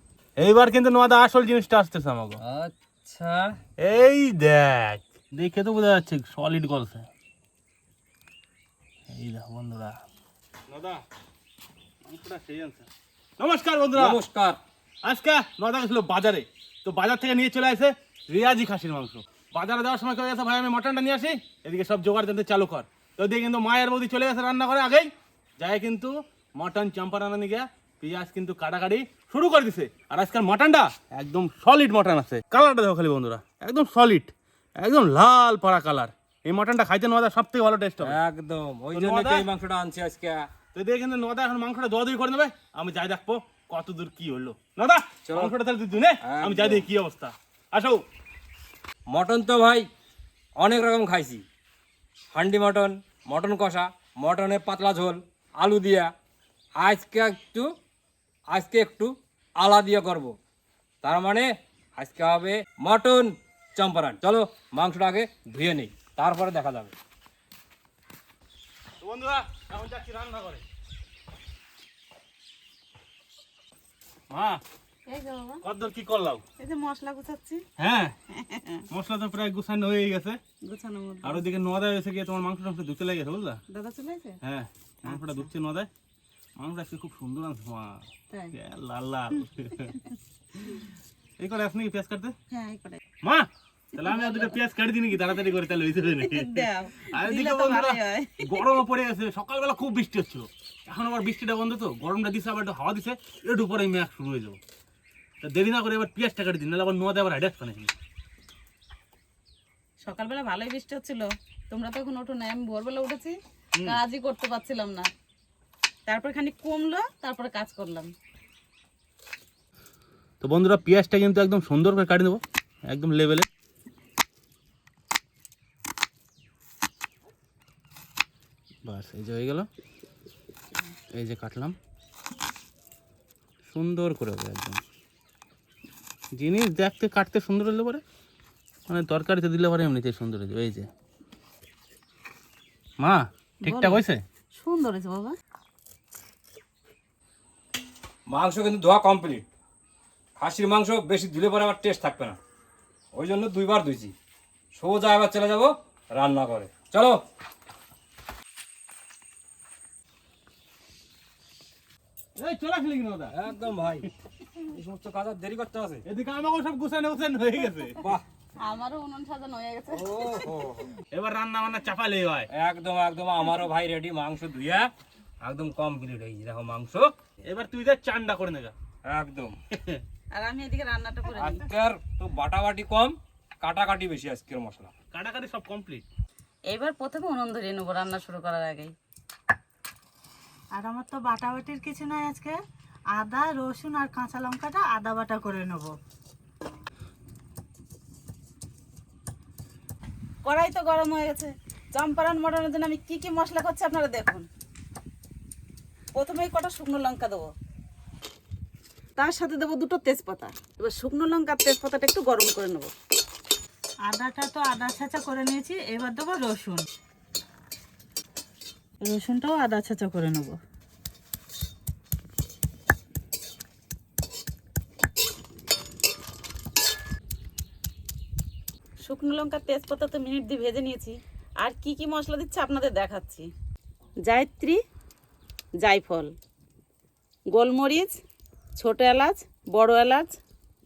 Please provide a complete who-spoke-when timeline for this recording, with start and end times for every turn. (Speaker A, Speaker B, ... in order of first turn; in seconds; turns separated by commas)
Speaker A: 0.4-2.4, Speaker B: 2.4-3.5, Speaker A: 3.8-7.1, Speaker A: 9.1-9.9, Speaker A: 10.7-11.0, Speaker A: 12.1-12.8, Speaker A: 13.4-14.2, Speaker B: 13.9-14.6, Speaker A: 15.0-38.2, Speaker B: 38.0-40.5, Speaker A: 38.9-39.5, Speaker A: 40.7-48.0, Speaker B: 45.2-45.5, Speaker B: 46.2-46.9, Speaker B: 49.1-49.9, Speaker B: 50.5-51.4, Speaker B: 52.3-56.1, Speaker B: 56.8-57.7, Speaker B: 58.5-60.4, Speaker B: 61.0-66.9, Speaker A: 69.0-70.6, Speaker A: 74.3-74.6, Speaker C: 75.1-75.6, Speaker A: 75.6-76.4, Speaker C: 76.6-77.6, Speaker A: 77.8-78.1, Speaker C: 78.3-78.8, Speaker A: 78.9-80.4, Speaker C: 80.6-81.4, Speaker A: 81.2-83.6, Speaker C: 83.7-84.4, Speaker A: 84.4-85.9, Speaker C: 85.0-85.4, Speaker A: 86.6-88.0, Speaker C: 88.3-88.5, Speaker A: 88.5-90.0, Speaker A: 91.4-92.3, Speaker C: 92.5-93.0, Speaker C: 94.0-94.5, Speaker A: 94.0-104.6, Speaker C: 96.2-98.6, Speaker A: 105.4-107.9, Speaker C: 110.0-115.1, Speaker C: 116.1-118.1, Speaker A: 120.4-123.5, Speaker A: 128.8-129.7, Speaker A: 131.1-131.8, Speaker A: 133.7-134.8, Speaker A: 136.3-138.0, Speaker A: 138.9-140.9, Speaker A: 143.0-144.2, Speaker C: 143.6-144.0, Speaker C: 144.5-145.3, Speaker B: 148.3-149.5, Speaker B: 150.4-152.4, Speaker B: 153.1-154.1, Speaker B: 154.7-157.2, Speaker A: 162.4-163.3, Speaker B: 163.3-164.1, Speaker B: 164.7-166.0, Speaker A: 166.0-168.1, Speaker C: 168.6-170.3, Speaker B: 169.9-170.9, Speaker A: 171.1-172.5, Speaker B: 172.5-174.9, Speaker B: 175.4-177.1, Speaker A: 177.4-178.7, Speaker B: 179.0-179.6, Speaker A: 179.7-180.0, Speaker C: 180.3-181.7, Speaker B: 181.3-184.9, Speaker A: 185.1-186.0, Speaker C: 186.7-188.9, Speaker D: 190.7-192.6, Speaker D: 193.1-195.9, Speaker C: 200.4-204.5, Speaker C: 206.1-207.5, Speaker C: 209.2-212.9, Speaker D: 214.1-216.8, Speaker D: 219.0-220.6, Speaker C: 229.0-233.5, Speaker C: 234.2-234.8, Speaker C: 235.8-236.3, Speaker C: 237.5-238.1, Speaker C: 238.8-240.3